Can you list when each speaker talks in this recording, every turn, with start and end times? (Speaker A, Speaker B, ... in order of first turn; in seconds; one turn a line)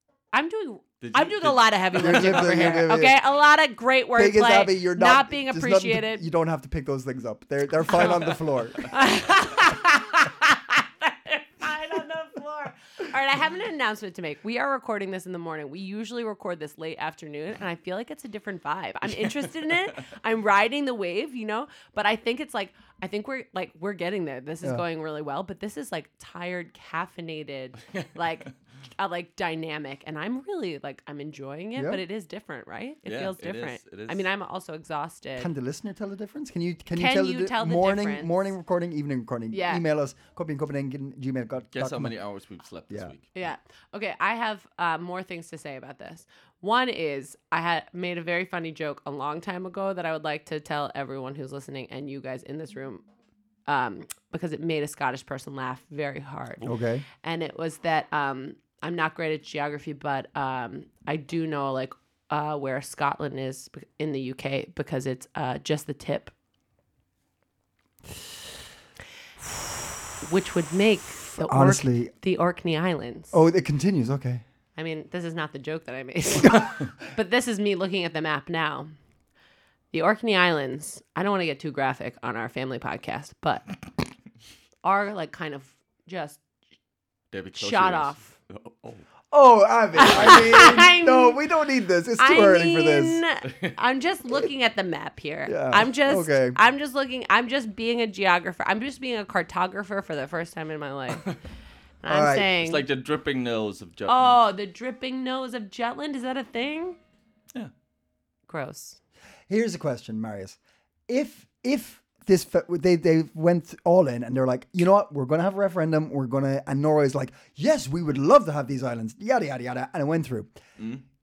Speaker A: 0.3-6.2
Speaker B: 1.0-2.8
Speaker C: 1.9-3.2
Speaker C: 4.1-8.9
Speaker A: 8.9-35.5
Speaker B: 27.9-28.5
Speaker C: 31.7-32.0
Speaker B: 33.0-34.2
Speaker C: 35.4-42.1
Speaker A: 36.9-38.5
Speaker A: 39.5-39.8
Speaker B: 41.7-43.3
Speaker A: 43.3-53.0
Speaker A: 53.7-56.7
Speaker C: 56.6-57.0
Speaker A: 57.2-66.3
Speaker A: 70.2-73.3
Speaker C: 71.5-72.1
Speaker C: 73.3-74.4
Speaker A: 74.8-78.9
Speaker A: 79.9-83.8
Speaker A: 84.8-86.4
Speaker B: 87.3-89.0
Speaker A: 87.6-88.3
Speaker C: 89.3-93.2
Speaker A: 90.0-91.4
Speaker A: 92.2-101.4
Speaker C: 95.5-96.6
Speaker A: 102.0-102.8
Speaker C: 102.1-102.5
Speaker B: 102.5-104.4
Speaker A: 104.1-107.0
Speaker A: 108.5-109.0
Speaker C: 109.5-120.5
Speaker B: 120.8-121.0